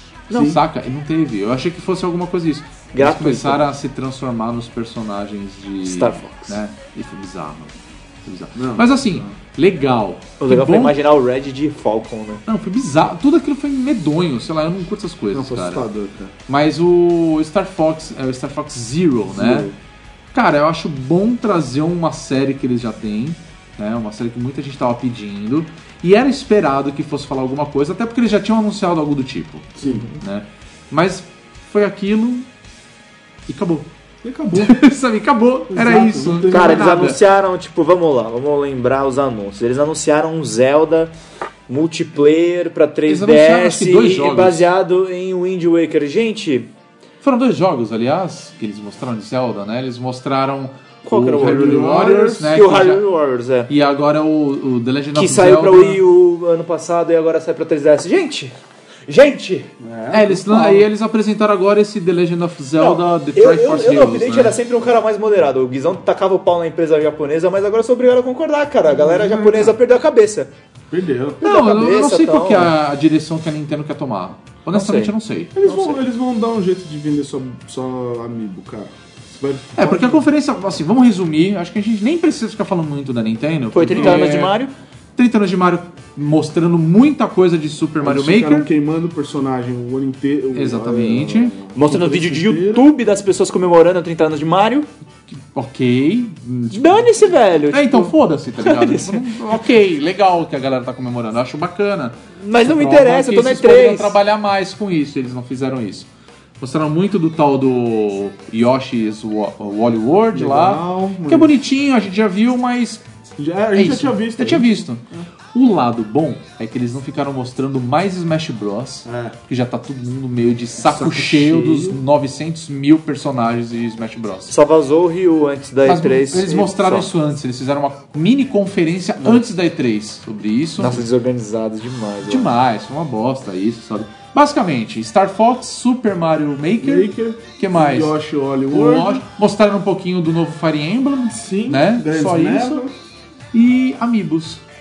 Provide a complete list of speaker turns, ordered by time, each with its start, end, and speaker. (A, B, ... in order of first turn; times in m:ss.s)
0:00.3-0:11.0 A
0:00.3-0:00.6 B
0:02.9-0:03.6 C
0:05.8-0:06.6 C
0:08.6-0:09.3 B
0:10.4-0:12.4 C
0:12.5-0:15.8 A
0:15.3-0:16.3 B
0:16.5-0:19.7 A
0:19.3-0:19.8 B
0:20.3-0:32.5 A
0:29.8-0:30.1 B
0:33.5-0:33.9 A
0:34.2-0:34.8 B
0:34.5-0:37.2 A
0:35.7-0:37.1 B
0:36.5-0:41.1 C
0:41.7-0:46.7 C
0:43.1-0:44.7 A
0:47.2-0:53.1 A
0:51.0-0:51.8 C
0:51.3-0:52.6 B
0:52.5-0:53.7 C
0:53.7-0:56.0 A
0:55.1-0:58.6 C
0:59.1-0:59.7 C
0:59.8-1:00.9 B
1:00.1-1:04.6 A
1:02.8-1:10.5 C
1:08.9-1:09.8 B
1:10.9-1:11.6 B
1:11.4-1:12.7 C
1:11.4-1:15.6 A
1:14.7-1:15.1 C
1:15.5-1:20.3 B
1:19.8-1:24.6 A
1:23.7-1:24.7 C
1:23.9-1:24.2 B
1:25.2-1:28.7 A
1:28.0-1:32.9 B
1:30.5-1:31.6 A
1:31.7-1:34.9 C
1:35.3-1:46.1 A
1:36.7-1:39.3 C
1:42.4-1:44.2 C
1:46.6-1:53.0 A
1:50.3-1:51.6 B
1:53.4-1:55.3 B
1:53.7-1:55.0 A
1:55.5-2:04.5 A
1:59.0-1:59.4 B
2:00.8-2:02.0 B
2:04.5-2:07.1 C
2:05.8-2:11.1 A
2:10.8-2:12.5 C
2:12.3-2:18.2 A
2:16.8-2:19.2 B
2:18.7-2:22.8 A
2:21.3-2:23.0 B
2:23.5-2:24.6 A